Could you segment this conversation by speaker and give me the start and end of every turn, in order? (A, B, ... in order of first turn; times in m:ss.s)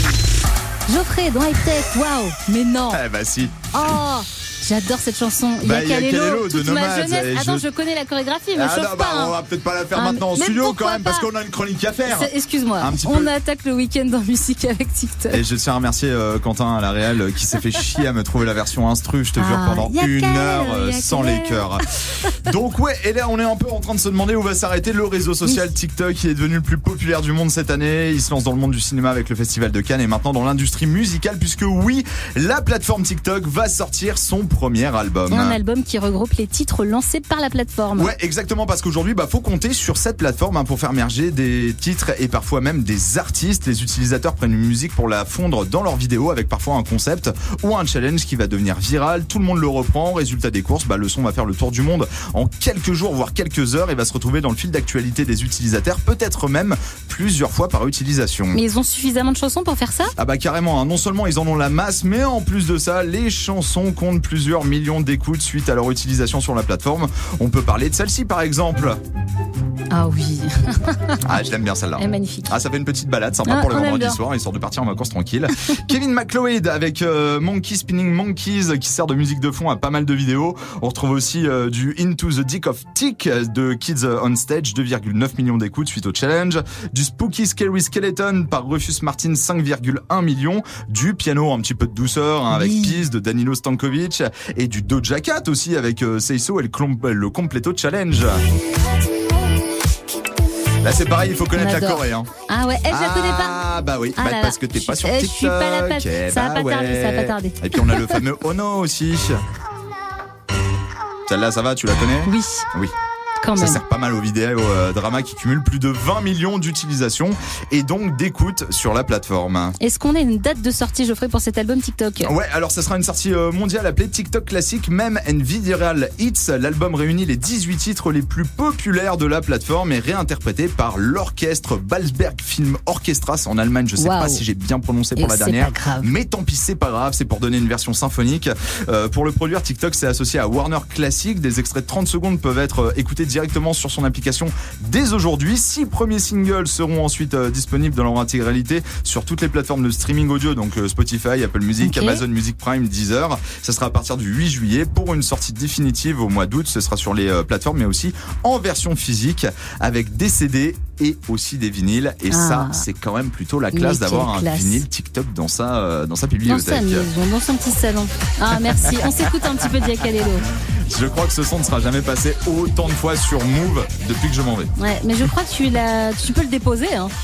0:00.9-0:03.0 A
0:02.9-0:03.6 B
0:03.7-0:09.4 A
0:05.6-0:07.6 B
0:08.5-0:13.3 B
0:09.9-0:11.3 A
0:12.1-0:15.4 A
0:15.3-0:35.6 B
0:19.4-0:21.8 A
0:35.3-0:38.1 A
0:38.0-0:58.6 B
0:58.5-1:00.1 A
1:00.2-1:09.0 B
1:09.9-1:11.3 A
1:11.2-1:38.4 B
1:12.0-1:12.6 A
1:13.5-1:14.2 A
1:32.5-1:33.0 A
1:40.8-1:42.3 B
1:41.6-1:48.2 A
1:42.9-1:49.4 B
1:51.3-1:52.9 B
1:52.2-1:52.7 A
1:53.4-1:53.8 A
1:53.6-1:59.8 B
1:59.8-2:02.3 A
2:02.2-2:47.1 B
2:14.0-2:14.4 A
2:15.2-2:16.1 A
2:31.8-2:32.2 A
2:42.3-2:42.8 A
2:43.7-2:44.8 A
2:46.4-2:50.4 A
2:49.0-2:49.5 B
2:50.9-2:54.7 B
2:54.8-2:57.1 A